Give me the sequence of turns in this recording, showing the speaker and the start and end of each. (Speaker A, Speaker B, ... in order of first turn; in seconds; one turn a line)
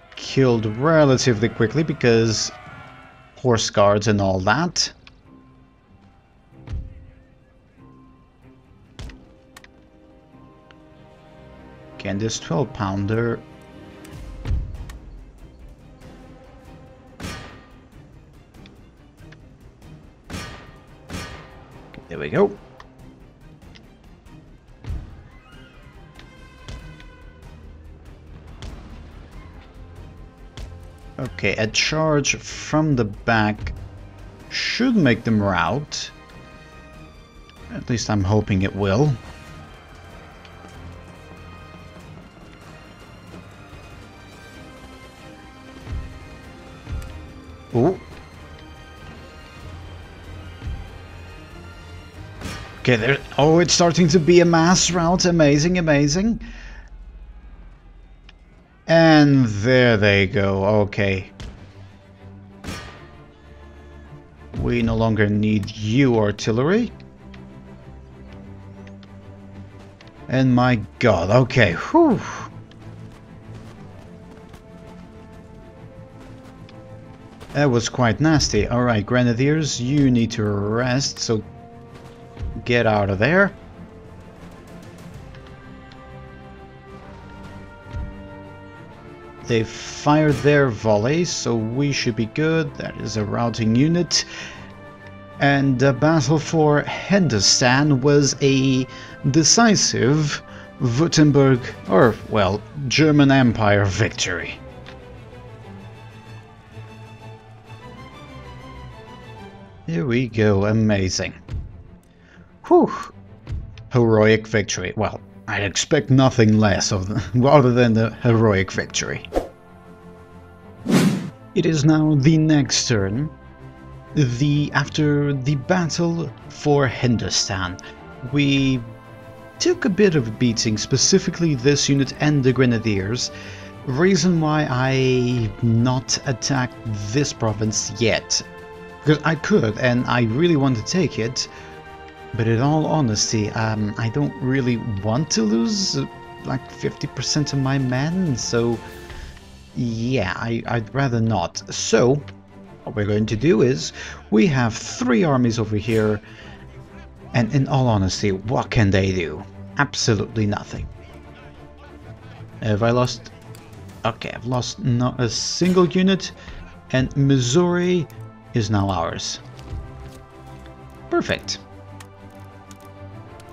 Speaker A: 0.2-2.5
Speaker A: 3.4-4.9
Speaker A: 12.0-13.5
Speaker A: 21.9-22.6
Speaker A: 31.2-33.8
Speaker A: 34.5-36.1
Speaker A: 37.7-39.2
Speaker A: 47.7-48.0
Speaker A: 52.8-56.4
Speaker A: 58.9-61.3
Speaker A: 64.5-67.0
Speaker A: 70.3-72.5
Speaker A: 77.5-81.4
Speaker A: 82.6-83.6
Speaker A: 89.5-94.3
Speaker A: 95.4-104.6
Speaker A: 109.9-111.4
Speaker A: 112.6-113.1
Speaker A: 113.9-119.3
Speaker A: 121.5-123.3
Speaker A: 124.2-128.9
Speaker A: 129.6-133.3
Speaker A: 133.8-138.4
Speaker A: 139.0-141.5
Speaker A: 142.3-148.8
Speaker A: 149.7-152.3
Speaker A: 152.8-156.2
Speaker A: 157.3-160.9
Speaker A: 162.6-163.3
Speaker A: 164.0-166.3
Speaker A: 166.9-169.4
Speaker A: 171.1-171.6